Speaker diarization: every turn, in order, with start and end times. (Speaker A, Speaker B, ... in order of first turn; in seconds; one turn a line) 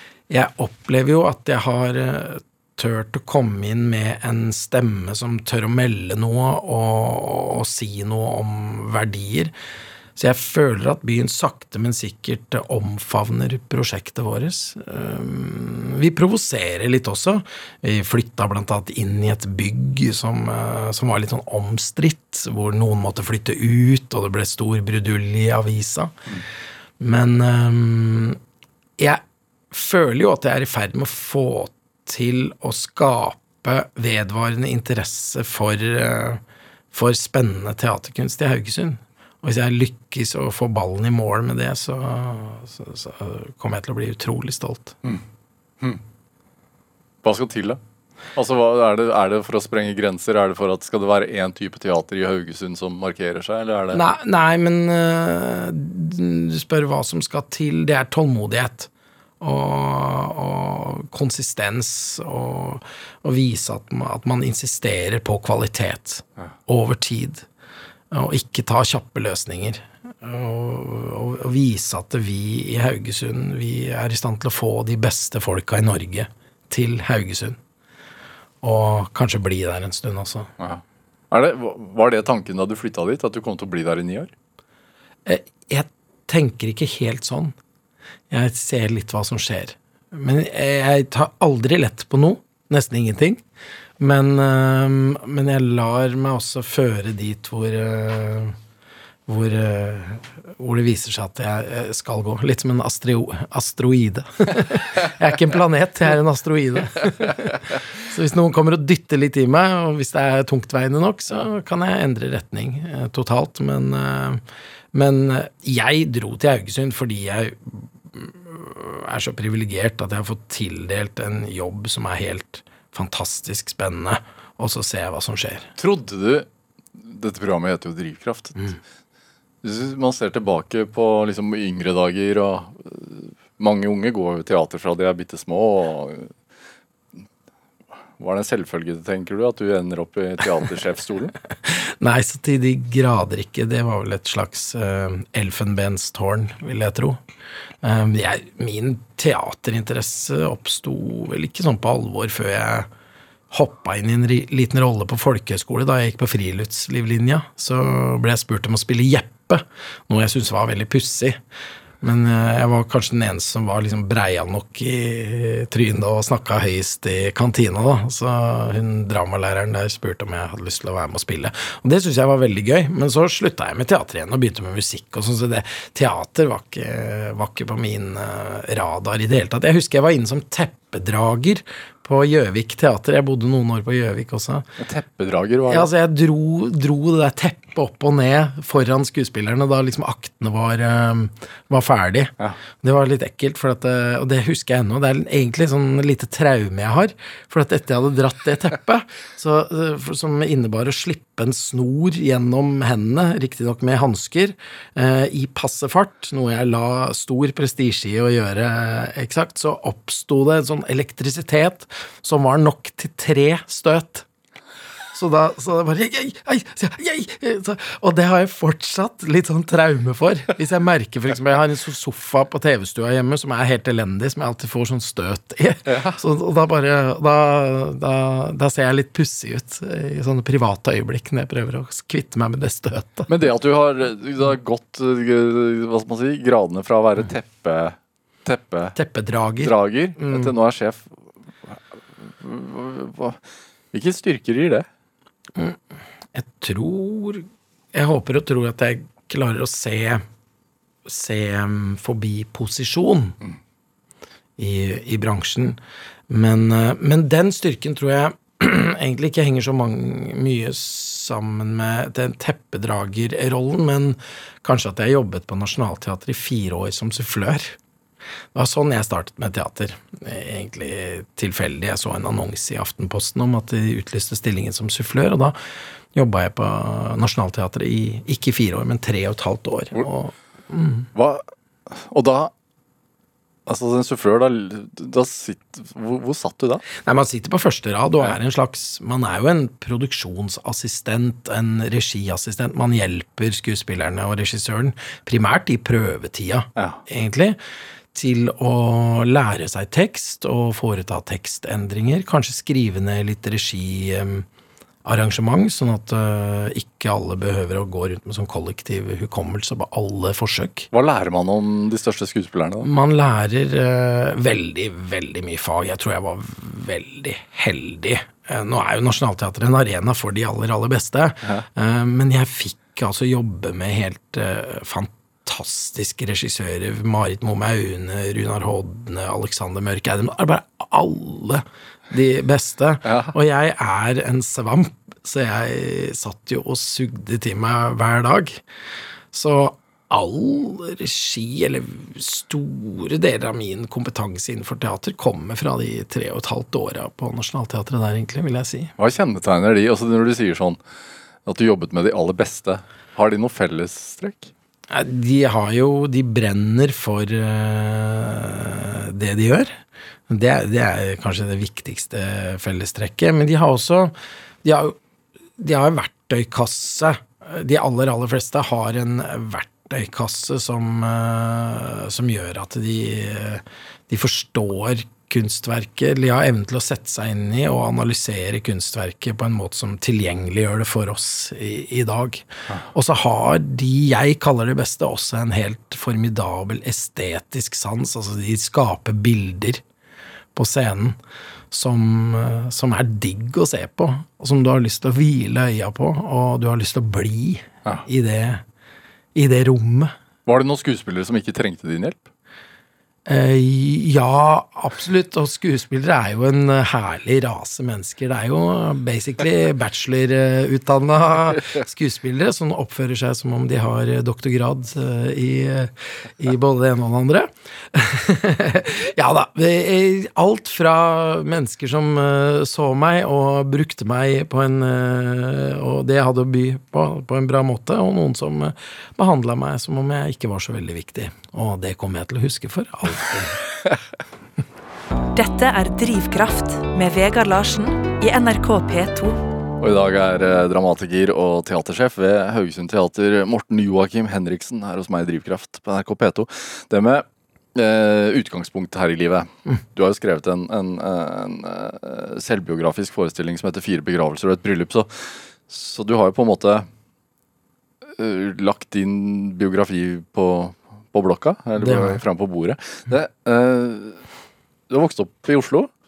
Speaker A: 0.3-9.5
Speaker A: 10.2-26.2
Speaker A: 27.0-28.4
Speaker A: 29.0-36.4
Speaker A: 36.9-45.0
Speaker B: 47.2-47.8
Speaker B: 48.4-54.0
Speaker A: 53.9-67.5
Speaker A: 68.1-77.6
Speaker A: 78.6-80.5
Speaker B: 80.6-84.3
Speaker A: 85.2-87.5
Speaker A: 88.3-93.4
Speaker A: 94.0-98.6
Speaker A: 99.3-114.4
Speaker A: 114.9-125.7
Speaker B: 125.8-128.7
Speaker B: 129.6-136.3
Speaker B: 138.2-141.3
Speaker A: 141.6-147.2
Speaker A: 147.8-152.9
Speaker A: 153.5-161.4
Speaker A: 162.0-184.7
Speaker B: 184.8-185.9
Speaker A: 185.7-214.3
Speaker A: 215.1-233.3
Speaker B: 225.8-226.2
Speaker B: 233.3-238.9
Speaker A: 238.9-240.5
Speaker B: 239.6-241.1
Speaker B: 241.7-243.4
Speaker B: 243.9-244.9
Speaker A: 246.3-250.2
Speaker A: 251.1-253.3
Speaker A: 254.6-267.8
Speaker A: 268.5-275.6
Speaker A: 276.1-281.1
Speaker B: 281.1-282.5
Speaker B: 283.7-286.8
Speaker A: 287.0-297.6
Speaker B: 296.8-297.0
Speaker A: 298.1-304.4
Speaker A: 305.0-310.9
Speaker B: 310.9-312.9
Speaker A: 312.8-338.6
Speaker B: 333.0-333.3
Speaker A: 339.3-348.9
Speaker B: 349.0-350.8
Speaker B: 351.4-354.5
Speaker A: 354.9-364.9
Speaker A: 365.6-389.8
Speaker A: 390.5-391.2
Speaker A: 391.7-398.6
Speaker A: 399.3-400.1
Speaker B: 400.4-402.3
Speaker A: 403.2-433.6
Speaker C: 435.3-439.4
Speaker B: 439.8-456.9
Speaker B: 458.2-464.2
Speaker A: 461.8-462.2
Speaker B: 464.9-465.9